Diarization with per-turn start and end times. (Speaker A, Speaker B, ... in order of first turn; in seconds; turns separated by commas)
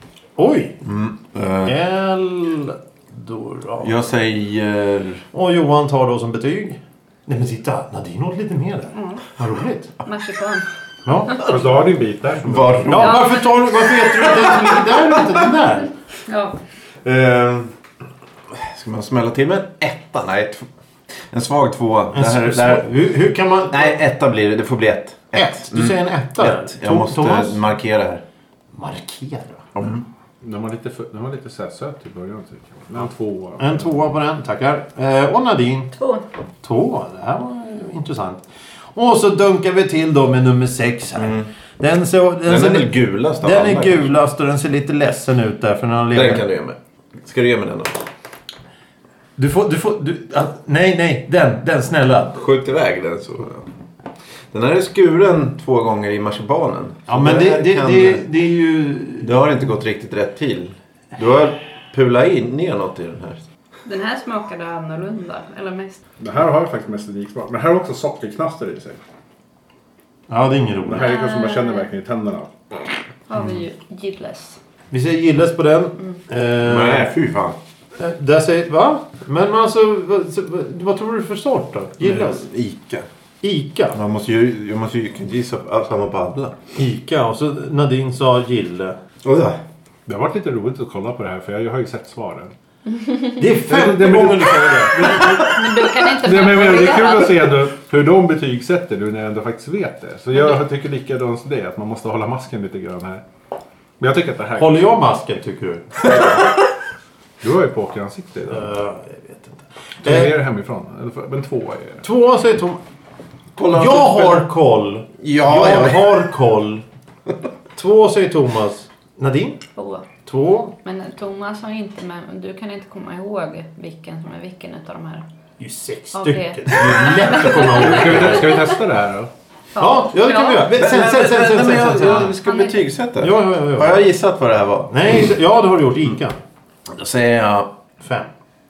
Speaker A: 0.4-0.8, Speaker B: 0.8-1.7, Speaker A: 1.6-4.0, Speaker B: 3.8-5.2, Speaker A: 5.3-9.9, Speaker C: 8.9-9.2, Speaker C: 10.0-10.7, Speaker A: 11.0-11.4, Speaker D: 11.4-13.2, Speaker B: 12.4-13.3, Speaker A: 12.9-15.9, Speaker C: 16.3-16.6, Speaker B: 17.0-17.7, Speaker B: 18.5-20.7, Speaker B: 21.3-22.9, Speaker A: 22.1-23.9, Speaker B: 23.7-28.2, Speaker A: 25.3-27.6, Speaker A: 28.8-29.6, Speaker B: 29.7-30.0, Speaker D: 30.4-33.9, Speaker A: 33.6-35.9, Speaker C: 36.0-36.2, Speaker A: 36.6-38.4, Speaker A: 38.9-46.4, Speaker B: 41.1-41.5, Speaker B: 42.5-44.1, Speaker B: 46.1-48.0, Speaker A: 49.4-52.4, Speaker B: 52.3-53.7, Speaker B: 54.5-58.2, Speaker A: 57.1-59.3, Speaker B: 59.2-63.4, Speaker C: 63.9-66.0, Speaker D: 66.2-69.0, Speaker A: 70.3-71.1, Speaker D: 70.8-72.9, Speaker C: 71.0-71.8, Speaker C: 73.3-74.6, Speaker A: 74.9-77.1, Speaker B: 76.6-77.6, Speaker A: 78.0-82.4, Speaker B: 82.0-83.0, Speaker A: 83.4-84.0, Speaker B: 83.9-86.5, Speaker A: 86.8-89.0, Speaker B: 89.2-89.6, Speaker D: 90.0-92.5, Speaker C: 92.9-93.3, Speaker A: 93.4-95.3, Speaker D: 93.7-103.2, Speaker C: 95.3-97.5, Speaker C: 100.3-100.6, Speaker D: 104.0-105.0, Speaker A: 104.5-106.3, Speaker D: 106.1-106.4, Speaker D: 107.4-108.7, Speaker A: 108.5-110.3, Speaker D: 110.0-112.0, Speaker A: 112.0-112.8, Speaker B: 113.5-114.4, Speaker A: 113.7-116.8, Speaker B: 115.2-116.1, Speaker A: 117.8-119.6, Speaker C: 119.8-120.0, Speaker A: 120.2-120.7, Speaker C: 120.8-125.2, Speaker A: 125.6-128.5, Speaker C: 126.1-128.7, Speaker D: 127.6-129.3, Speaker C: 129.7-130.8, Speaker A: 129.8-132.3, Speaker B: 130.7-135.2, Speaker C: 132.3-132.8, Speaker A: 133.2-134.0, Speaker A: 134.9-136.4, Speaker B: 136.9-137.7, Speaker A: 138.0-138.3